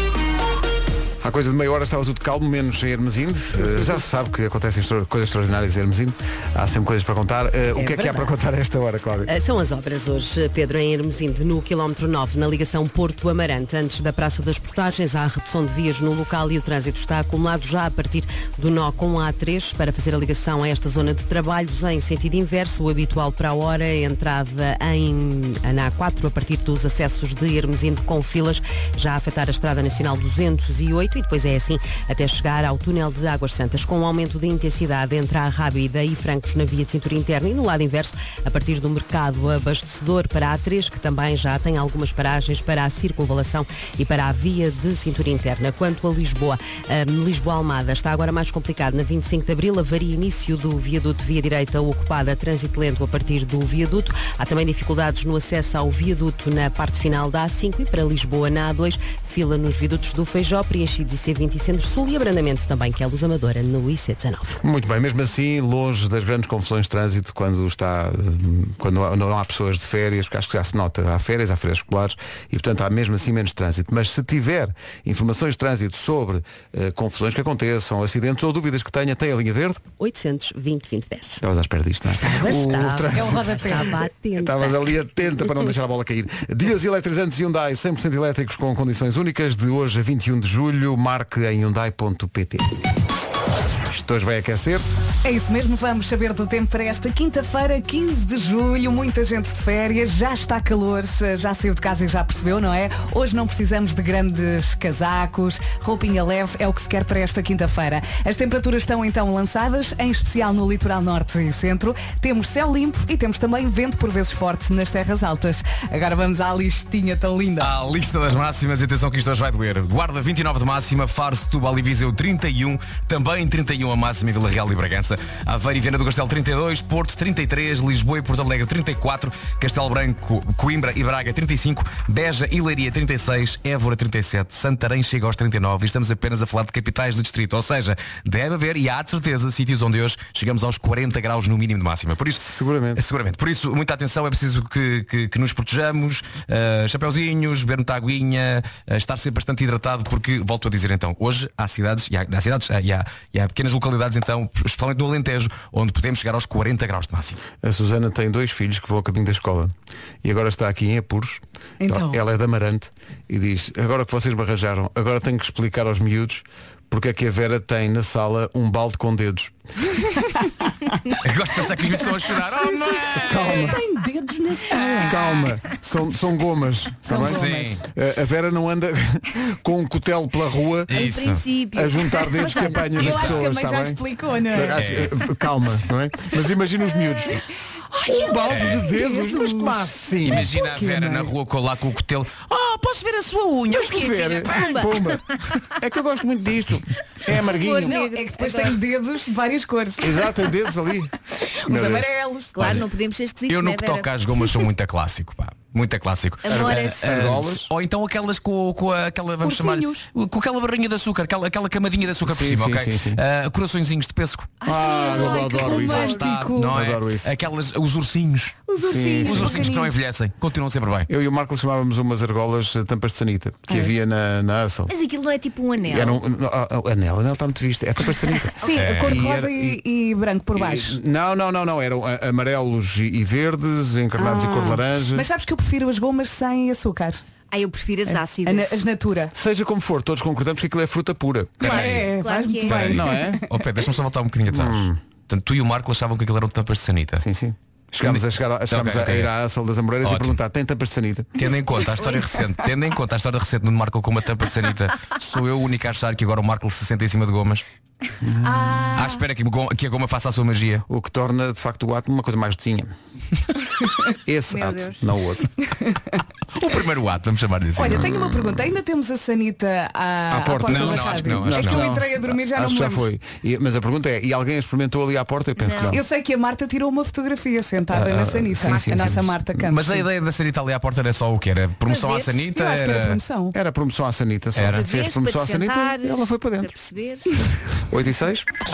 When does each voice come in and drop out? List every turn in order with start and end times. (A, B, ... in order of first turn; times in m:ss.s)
0:01.2-0:09.3 A
0:09.3-1:04.6 B
1:04.6-1:19.8 A
1:20.0-1:21.4 B
1:21.4-1:32.7 A
1:22.1-1:24.7 B
1:23.1-1:24.1 C
1:33.9-1:34.8 A
1:35.2-1:57.7 C
1:57.6-2:37.4 D
2:22.4-2:23.0 A
2:37.6-2:49.5 A
2:41.8-2:42.2 C
2:51.2-2:53.8 D
2:52.5-2:55.4 C
2:53.2-2:53.8 A
2:54.7-2:55.2 D
2:55.0-3:01.1 A
2:57.0-2:57.7 C
2:57.1-2:57.8 D
3:00.9-3:01.4 D
3:00.9-3:02.7 E
3:01.7-3:07.4 A
3:02.4-3:04.8 C
3:03.0-3:03.5 D
3:04.7-3:05.1 D
3:07.9-3:11.3 C
3:08.0-3:10.5 A
3:08.5-3:08.9 D
3:10.2-3:14.7 D
3:13.7-3:18.0 A
3:14.4-3:15.2 E
3:17.3-3:18.8 E
3:17.8-3:20.3 C
3:20.0-3:22.1 A
3:21.5-3:22.6 C
3:22.5-3:24.5 E
3:22.6-3:22.8 D
3:23.5-3:34.6 D
3:26.4-3:27.0 E
3:26.5-3:27.7 A
3:29.4-3:30.1 C
3:32.2-3:33.2 A
3:34.6-3:36.2 E
3:34.6-3:37.3 A
3:34.8-3:36.7 C
3:35.2-3:41.1 D
3:38.7-3:40.0 C
3:38.8-3:39.6 A
3:41.1-3:44.9 A
3:44.9-3:46.2 E
3:45.8-3:49.8 A
3:48.6-3:51.0 C
3:48.8-3:49.2 D
3:50.5-3:55.3 A
3:54.2-3:57.2 C
3:57.5-3:58.8 E
3:58.1-3:59.3 C
3:59.3-4:01.7 A
4:01.6-4:02.1 D
4:01.6-4:02.9 E
4:01.7-4:03.4 C
4:02.6-4:07.2 D
4:02.8-4:03.4 A
4:04.5-4:05.0 A
4:07.2-4:11.3 A
4:08.0-4:09.3 D
4:10.0-4:10.4 D
4:11.4-4:17.6 D
4:18.2-4:18.8 A
4:18.4-4:19.2 C
4:18.9-4:20.8 D
4:20.9-4:22.9 A
4:24.2-4:25.5 A
4:24.5-4:25.0 E
4:25.7-4:26.2 C
4:26.5-4:28.1 D
4:27.7-4:33.1 C
4:27.9-4:28.6 A
4:30.3-4:36.0 A
4:30.7-4:32.0 D
4:35.6-4:36.0 E
4:35.9-4:40.1 C
4:37.9-4:39.4 A
4:39.6-4:43.2 D
4:41.9-4:42.4 E
4:42.5-4:43.6 C
4:43.5-4:46.7 A
4:44.5-4:44.8 D
4:44.7-4:47.4 E
4:47.9-4:48.5 A